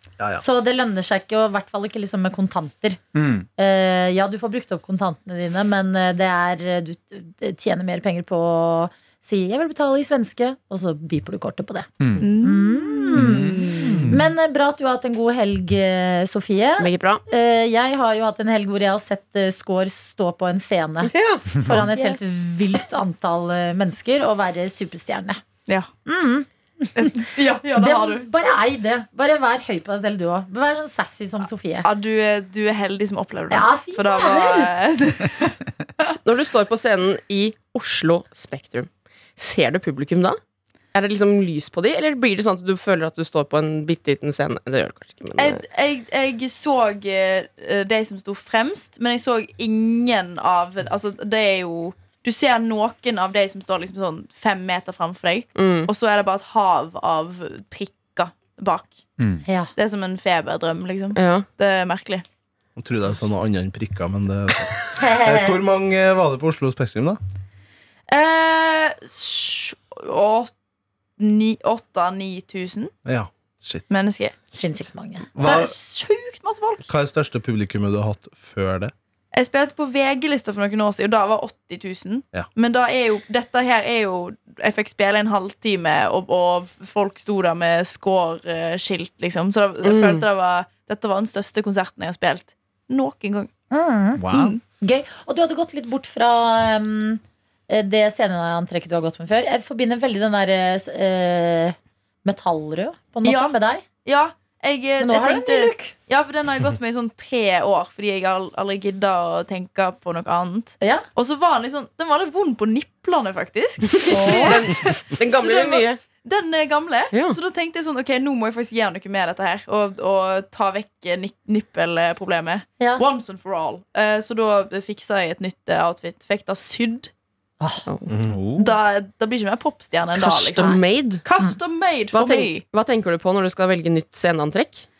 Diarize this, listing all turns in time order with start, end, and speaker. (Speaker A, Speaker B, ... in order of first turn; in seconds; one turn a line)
Speaker A: 0.2-0.4
Speaker B: 0.4-3.0
Speaker C: 3.1-3.5
Speaker B: 3.6-25.4
Speaker C: 12.0-12.3
Speaker D: 12.2-14.1
Speaker C: 13.2-14.2
Speaker E: 16.8-17.2
Speaker E: 21.1-22.2
Speaker C: 21.6-21.9
Speaker B: 26.1-31.9
Speaker D: 27.0-28.3
Speaker D: 31.8-35.5
Speaker B: 33.5-34.7
Speaker E: 36.2-40.4
Speaker E: 40.9-45.6
Speaker D: 45.4-59.0
Speaker E: 55.5-55.9
Speaker B: 59.5-59.7
Speaker D: 59.8-62.2
Speaker E: 61.2-61.5
Speaker A: 62.8-67.2
Speaker B: 65.0-65.6
Speaker D: 68.1-70.5
Speaker D: 71.2-72.9
Speaker A: 73.0-73.9
Speaker D: 73.9-74.6
Speaker B: 74.6-75.3
Speaker A: 75.3-75.8
Speaker D: 75.4-76.9
Speaker A: 76.9-78.9
Speaker D: 79.3-93.5
Speaker E: 89.8-90.3
Speaker B: 93.7-94.2
Speaker C: 94.2-94.6
Speaker D: 94.3-94.6
Speaker B: 94.8-103.8
Speaker D: 103.2-127.1
Speaker B: 105.0-105.9
Speaker B: 110.8-111.1
Speaker E: 113.9-116.0
Speaker B: 114.1-114.6
Speaker E: 117.1-117.4
Speaker B: 122.8-123.0
Speaker B: 127.6-127.9
Speaker E: 127.9-128.1
Speaker A: 128.1-128.4
Speaker C: 128.3-128.8
Speaker D: 128.6-132.7
Speaker E: 130.2-131.2
Speaker E: 132.1-134.9